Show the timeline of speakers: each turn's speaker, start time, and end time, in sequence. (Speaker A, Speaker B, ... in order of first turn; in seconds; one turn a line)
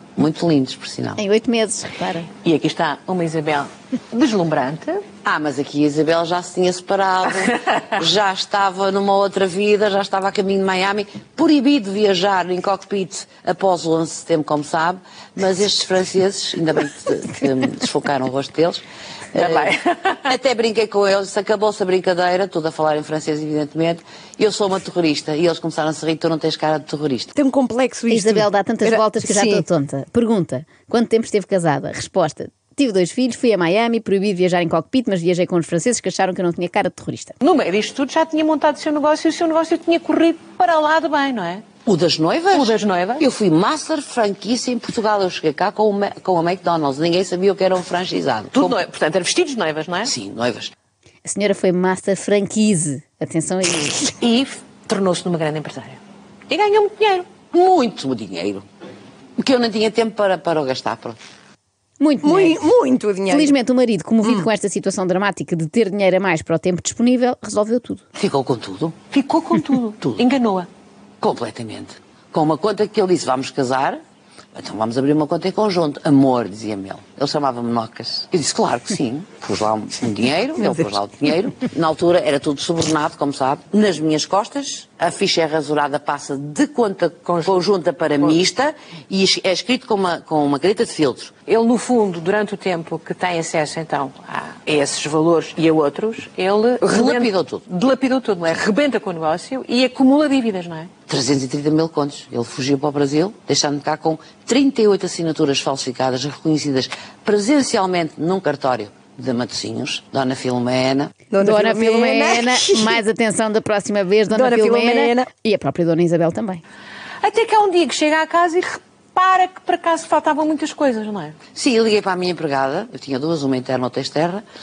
Speaker A: 0.2-1.2
Speaker B: 1.2-2.3
Speaker C: 2.4-5.0
Speaker A: 5.2-19.7
Speaker C: 19.4-20.3
Speaker A: 20.3-27.3
Speaker D: 27.4-29.6
Speaker B: 28.1-37.4
Speaker C: 37.4-41.6
Speaker A: 41.9-48.8
Speaker C: 42.5-43.2
Speaker C: 48.5-50.1
Speaker A: 50.0-50.7
Speaker B: 51.2-54.2
Speaker C: 54.2-57.3
Speaker A: 57.5-58.6
Speaker A: 59.4-61.2
Speaker B: 62.0-62.6
Speaker D: 62.2-63.5
Speaker B: 63.3-68.0
Speaker A: 68.2-69.0
Speaker C: 69.1-70.7
Speaker A: 71.2-74.0
Speaker A: 74.5-91.3
Speaker C: 87.3-87.7
Speaker C: 91.5-100.9
Speaker A: 96.8-97.6
Speaker A: 101.1-111.1
Speaker D: 111.3-113.0
Speaker B: 111.4-116.6
Speaker D: 114.3-115.3
Speaker C: 117.2-121.4
Speaker A: 121.5-124.4